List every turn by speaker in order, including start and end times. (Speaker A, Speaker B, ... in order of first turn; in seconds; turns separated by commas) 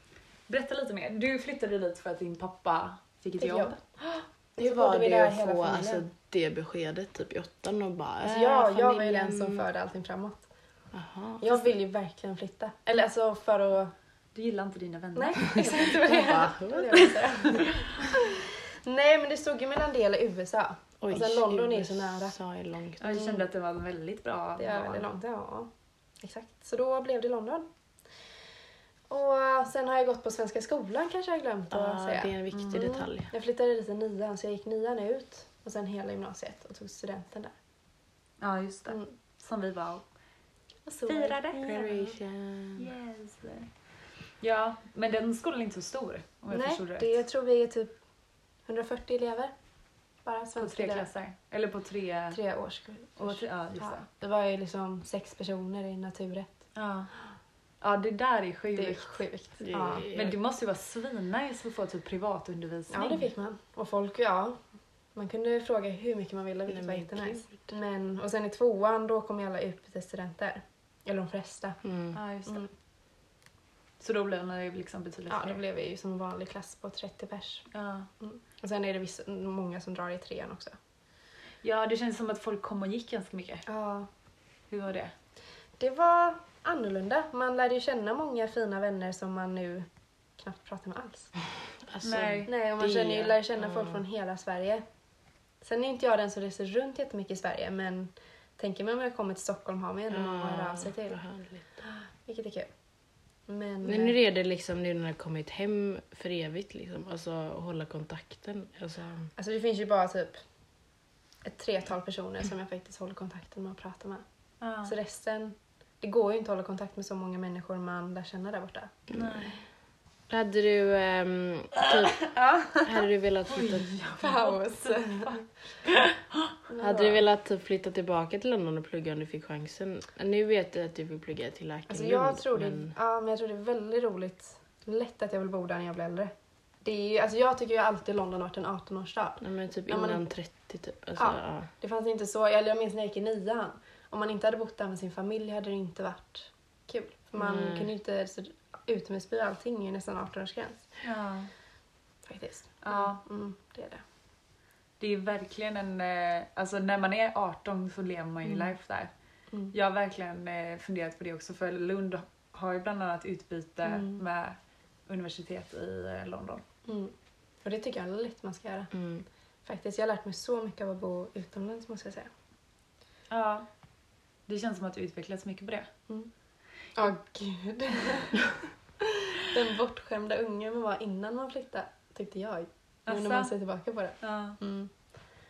Speaker A: 0.5-3.8, Speaker B: 3.4-6.0, Speaker C: 4.6-9.7, Speaker B: 8.2-10.4, Speaker C: 10.9-11.5, Speaker B: 11.4-13.9, Speaker A: 14.3-16.4, Speaker B: 15.1-22.3, Speaker C: 15.5-17.1, Speaker A: 16.9-17.7, Speaker C: 21.0-23.2, Speaker A: 23.0-25.1, Speaker B: 24.6-27.7, Speaker B: 29.1-32.4, Speaker C: 31.7-33.3, Speaker A: 32.5-33.0, Speaker B: 33.3-37.5, Speaker A: 38.4-40.0, Speaker B: 40.9-41.6, Speaker A: 41.0-41.9, Speaker C: 41.5-42.9, Speaker A: 42.8-43.7, Speaker A: 44.4-47.1, Speaker B: 46.5-47.9, Speaker B: 48.7-49.5, Speaker B: 50.2-51.1, Speaker A: 50.6-52.4, Speaker B: 52.3-56.6, Speaker A: 53.2-54.0, Speaker A: 56.7-57.1, Speaker A: 57.8-59.2, Speaker B: 58.7-60.1, Speaker C: 59.6-60.3, Speaker A: 60.1-63.3, Speaker B: 62.9-64.6, Speaker B: 65.1-71.8, Speaker C: 66.7-67.7, Speaker C: 71.8-72.2, Speaker A: 72.1-72.6, Speaker A: 74.0-75.6, Speaker B: 75.3-77.7, Speaker A: 77.7-78.1, Speaker B: 78.2-80.7, Speaker A: 81.6-83.7, Speaker B: 83.7-84.1, Speaker A: 84.7-85.1, Speaker B: 85.8-89.9, Speaker B: 90.4-91.3, Speaker C: 91.9-94.0, Speaker A: 92.0-92.5, Speaker B: 92.5-94.8, Speaker B: 95.6-101.2, Speaker C: 100.1-101.8, Speaker B: 102.2-102.7, Speaker B: 103.5-104.2, Speaker C: 103.8-109.3, Speaker B: 109.4-110.4, Speaker B: 111.4-114.2, Speaker A: 114.6-115.0, Speaker B: 114.8-119.0, Speaker A: 119.1-119.5, Speaker C: 119.2-119.4, Speaker C: 120.3-123.9, Speaker B: 122.2-122.8, Speaker A: 123.5-126.5, Speaker B: 124.2-125.4, Speaker B: 126.7-127.2, Speaker C: 126.8-132.9, Speaker B: 131.9-136.3, Speaker B: 136.8-140.2, Speaker C: 139.4-141.7, Speaker B: 141.2-150.9, Speaker C: 147.4-147.9, Speaker A: 151.0-151.5, Speaker B: 152.2-154.0, Speaker A: 152.8-153.2, Speaker A: 155.0-159.1, Speaker A: 159.7-166.6, Speaker B: 163.8-164.2, Speaker B: 166.8-168.9, Speaker C: 168.9-169.2, Speaker B: 169.7-172.3, Speaker A: 173.3-173.7, Speaker A: 174.5-175.9, Speaker B: 177.0-184.9, Speaker A: 183.1-183.5, Speaker A: 184.2-184.6